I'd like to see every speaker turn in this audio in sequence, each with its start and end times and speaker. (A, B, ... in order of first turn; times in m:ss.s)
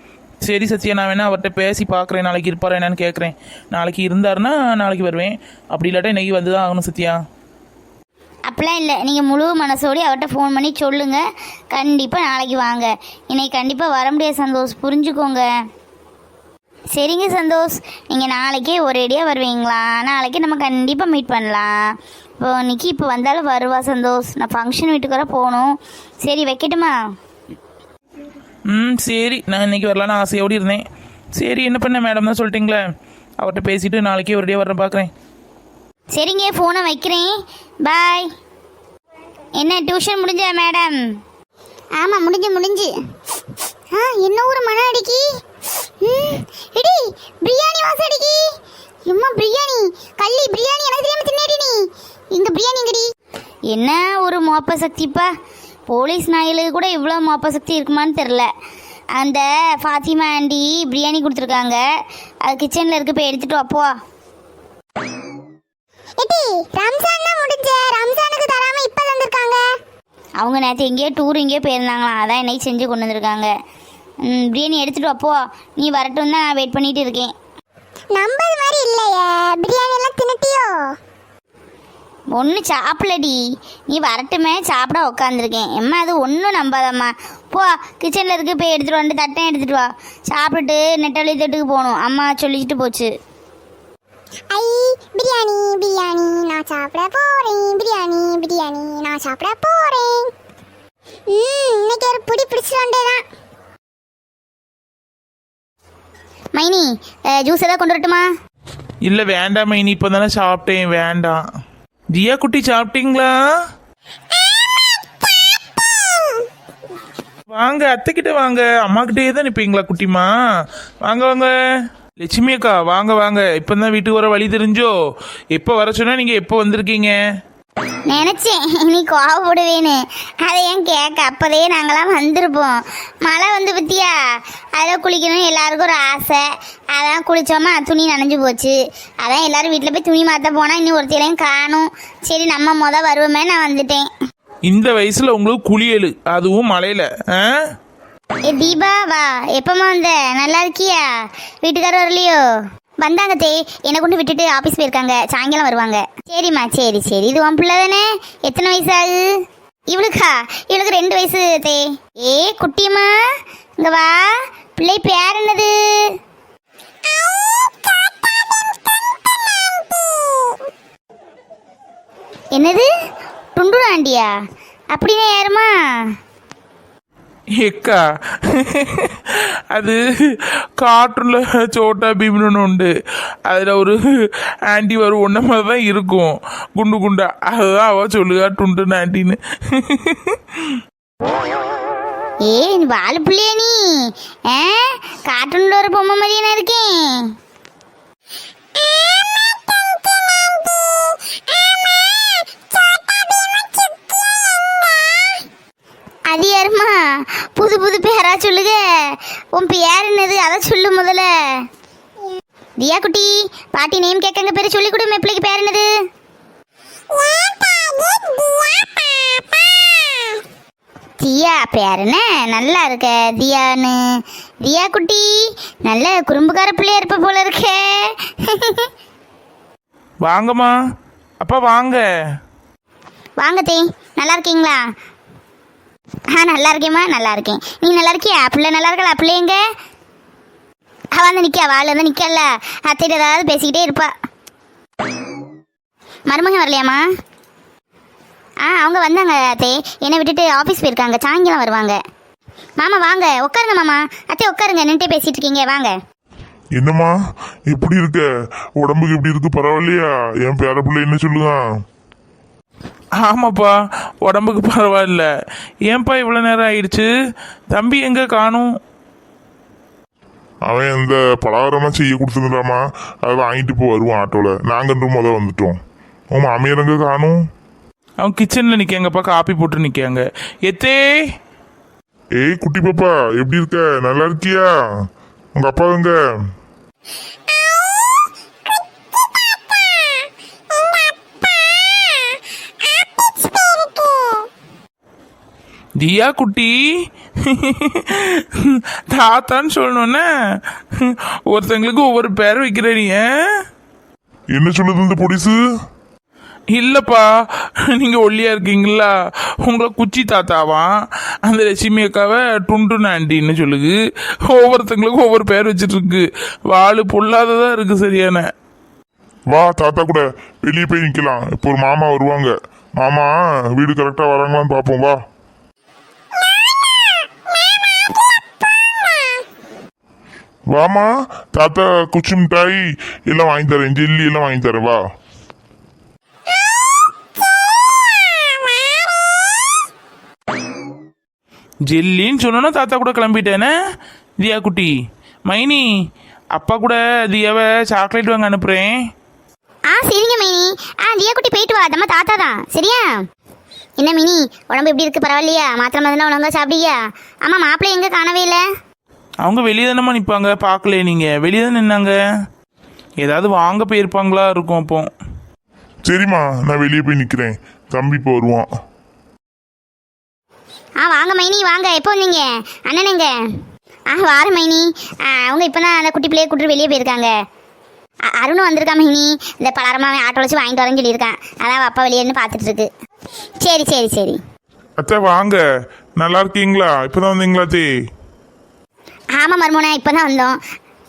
0:00.4-0:07.2 A
0:08.5-0:15.4 B
0:16.9-0:27.2 B
0:28.7-0:30.8 A
0:31.4-0:32.8 A
0:33.4-0:35.1 A
0:36.1-0:38.3 B
0:39.6-0:41.2 B
0:42.0-0:42.9 B
0:43.9-0:45.2 B
0:46.0-0:48.5 B
0:49.1-0:53.1 B
0:53.7-0:55.3 B
0:55.9-0:58.5 B
0:59.1-1:01.8 B
1:02.4-1:03.9 B
1:06.2-1:09.7 C
1:10.4-1:13.5 B
1:14.2-1:17.3 B
1:18.1-1:21.0 C
1:22.3-1:33.1 B
1:34.5-1:40.3 C
1:41.3-1:43.2 C
1:46.5-1:48.3 B
1:49.0-1:51.4 A
1:52.1-1:53.3 A
1:57.5-2:00.3 A
2:01.0-2:01.5 A
2:02.2-2:04.9 A
2:05.5-2:07.1 A
2:08.1-2:24.1 B
2:24.7-2:27.5 A
2:28.4-2:32.4 B
2:33.0-2:43.1 B
2:43.8-2:46.1 B
2:52.5-2:52.9 B
2:53.5-2:54.3 B
2:54.9-2:56.1 B
2:57.6-3:00.0 A
3:00.8-3:02.9 A
3:03.5-3:04.0 A
3:04.7-3:10.8 A
3:12.4-3:17.3 B
3:18.8-3:21.8 C
3:22.3-3:25.1 C
3:26.3-3:31.6 B
3:32.8-3:35.9 B
3:37.2-3:40.0 C
3:41.2-3:48.9 B
3:50.2-3:50.7 A
3:51.4-3:52.0 A
3:53.4-3:54.8 B
3:56.3-3:59.6 B
4:01.1-4:04.1 B
4:06.3-4:07.0 B
4:08.6-4:12.0 B
4:12.8-4:16.0 B
4:16.8-4:17.1 D
4:17.7-4:18.3 D
4:18.8-4:21.6 D
4:23.2-4:25.3 A
4:25.9-4:27.1 A
4:27.7-4:28.7 A
4:30.7-4:35.8 D
4:36.3-4:37.4 D
4:38.2-4:41.0 A
4:42.4-4:44.7 D
4:45.6-4:46.1 D
4:47.5-4:48.1 C
4:49.8-4:50.0 C
4:50.8-4:52.2 C
4:52.8-4:54.4 C
4:56.0-4:56.7 A
4:57.4-5:00.3 A
5:00.9-5:03.3 A
5:04.5-5:05.6 D
5:06.7-5:09.1 A
5:09.6-5:10.9 A
5:11.4-5:14.0 A
5:14.5-5:18.5 A
5:19.5-5:25.2 D
5:30.7-5:35.0 D
5:41.9-5:43.7 A
5:44.4-5:44.9 A
5:45.5-5:45.8 A
5:46.5-5:49.0 A
5:49.9-5:53.1 B
5:54.0-5:58.6 B
5:59.4-6:02.1 A
6:03.2-6:05.1 A
6:06.0-6:08.7 D
6:11.0-6:13.3 B
6:14.1-6:17.3 B
6:18.3-6:22.9 B
6:23.6-6:24.4 B
6:25.0-6:25.3 D
6:26.2-6:27.8 D
6:29.4-6:30.6 B